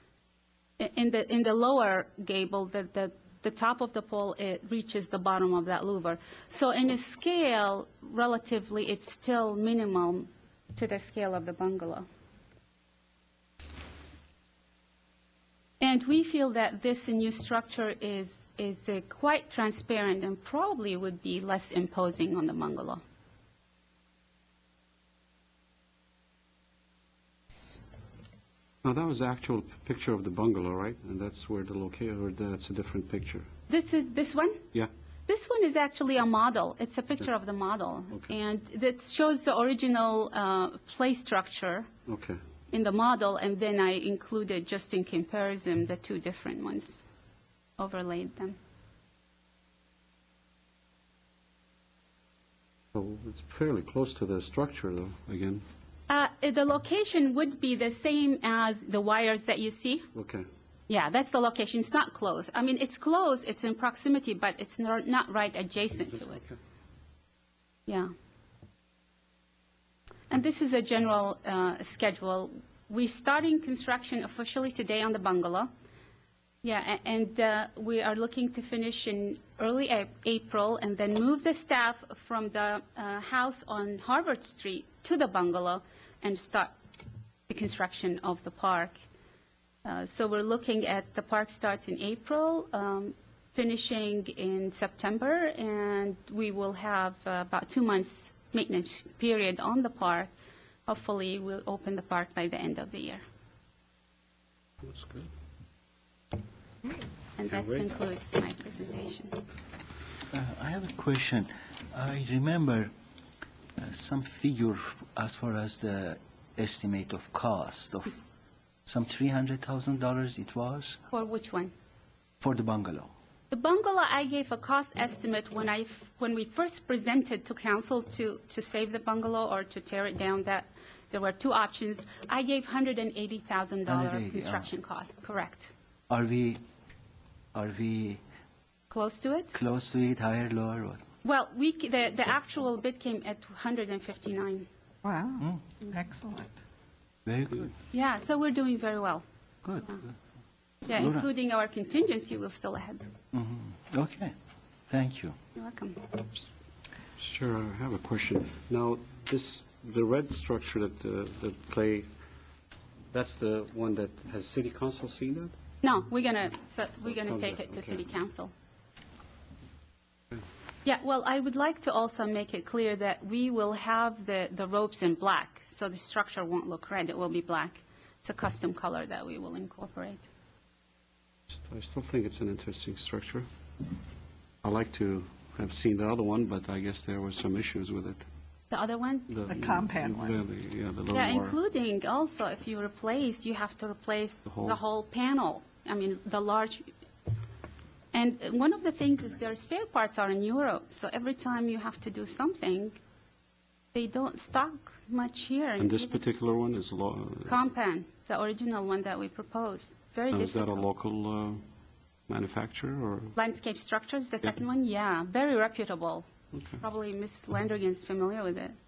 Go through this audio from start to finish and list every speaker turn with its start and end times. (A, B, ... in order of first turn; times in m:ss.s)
0:00.8-0:12.1 A
0:15.8-0:23.0 A
0:28.8-0:33.5 B
0:33.7-0:34.6 A
0:35.3-0:41.9 A
0:42.1-0:42.4 B
0:42.7-0:47.0 A
0:47.8-0:48.6 A
0:52.9-0:55.6 B
0:56.1-1:00.1 A
1:00.2-1:00.5 B
1:00.9-1:06.4 A
1:06.3-1:06.6 B
1:07.9-1:08.1 A
1:10.3-1:15.7 A
1:16.6-1:26.7 A
1:27.5-1:29.0 A
1:29.8-1:40.3 A
1:40.9-1:43.2 A
1:44.8-1:45.3 B
1:47.4-1:49.4 A
1:47.5-1:47.9 B
1:50.3-1:52.9 C
1:53.8-1:58.2 C
1:58.9-2:01.0 C
2:01.1-2:01.7 A
2:02.4-2:03.1 C
2:03.5-2:15.7 A
2:13.9-2:14.7 C
2:16.1-2:16.6 C
2:17.5-2:18.2 C
2:18.9-2:19.5 A
2:19.5-2:21.0 C
2:21.2-2:24.7 A
2:25.0-2:26.6 D
2:27.2-2:27.7 C
2:27.9-2:29.2 A
2:29.6-2:30.0 C
2:30.8-2:33.1 A
2:30.9-2:31.3 C
2:33.3-2:34.3 C
2:34.9-2:35.4 C
2:35.6-2:36.2 A
2:37.2-2:42.1 B
2:43.1-2:45.5 B
2:45.8-2:48.5 A
2:47.0-2:48.1 B
2:50.8-3:00.2 A
3:01.5-3:03.5 B
3:04.6-3:08.3 B
3:08.7-3:09.3 A
3:09.3-3:11.6 B
3:09.5-3:10.4 D
3:11.1-3:16.9 A
3:14.5-3:14.8 B
3:18.1-3:23.0 A
3:23.9-3:26.3 A
3:25.8-3:27.6 B
3:27.5-3:30.9 A
3:30.3-3:31.6 B
3:32.3-3:33.4 B
3:33.4-3:36.3 A
3:36.5-3:36.8 B
3:36.8-3:38.8 A